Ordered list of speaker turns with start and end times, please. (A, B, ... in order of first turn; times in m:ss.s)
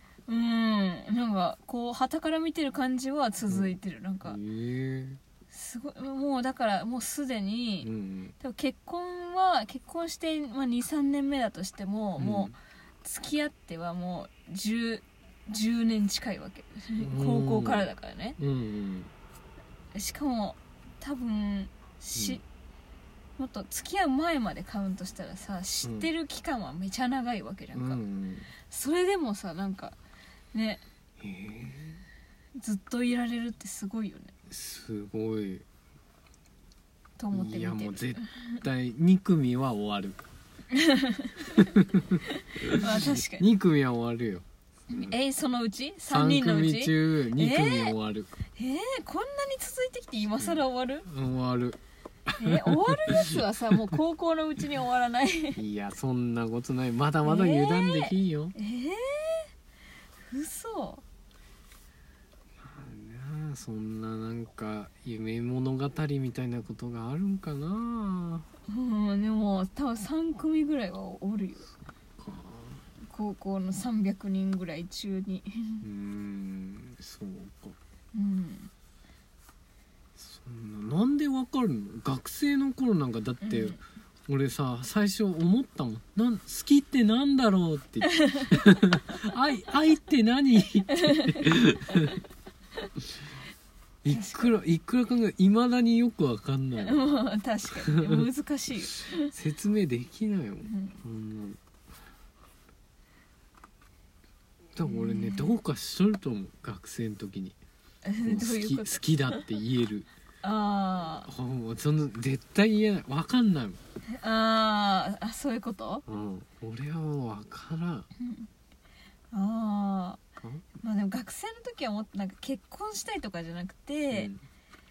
0:00.3-0:04.4 A
0:03.5-0:05.2 B
0:05.5-0:07.9 A
0:07.8-0:08.3 B
0:08.4-0:18.4 A
0:12.2-0:12.5 B
0:17.0-0:19.1 B
0:19.9-0:22.4 A
0:22.1-0:22.4 B
0:23.4-0:28.0 A
0:25.8-0:26.1 B
0:27.7-0:28.5 B
0:28.7-0:30.0 A
0:30.5-0:30.8 A
0:31.2-0:32.0 B
0:32.6-0:34.3 A
0:34.5-0:35.6 B
0:37.2-0:38.6 A
0:37.3-0:40.3 B
0:40.7-0:41.6 A
0:41.6-0:42.1 B
0:42.2-0:43.4 A
0:42.6-0:45.2 B
0:44.9-0:47.9 A
0:46.1-0:48.4 B
0:48.6-0:51.0 A
0:50.4-0:51.8 B
0:52.4-0:55.6 A
0:52.4-0:53.4 B
0:55.5-0:58.6 B
0:57.2-0:59.5 A
1:00.3-1:01.0 A
1:02.6-1:08.4 B
1:08.7-1:11.7 A
1:12.2-1:12.8 B
1:13.0-1:15.8 A
1:15.8-1:17.8 B
1:18.1-1:18.7 A
1:20.2-1:32.2 B
1:23.4-1:23.8 A
1:28.1-1:28.6 A
1:34.0-1:37.1 B
1:34.1-1:34.6 A
1:36.8-1:39.3 A
1:37.8-1:38.3 B
1:39.3-1:41.6 B
1:40.6-1:41.0 A
1:44.8-1:47.6 B
1:44.8-1:45.6 A
1:48.0-1:49.4 A
1:48.2-1:50.1 B
1:50.4-1:51.3 A
1:51.2-1:53.8 B
1:54.1-1:56.0 A
1:56.0-1:58.1 B
1:58.2-1:58.5 A
1:59.3-2:00.2 A
2:00.4-2:00.6 B
2:00.8-2:04.3 A
2:04.1-2:04.4 B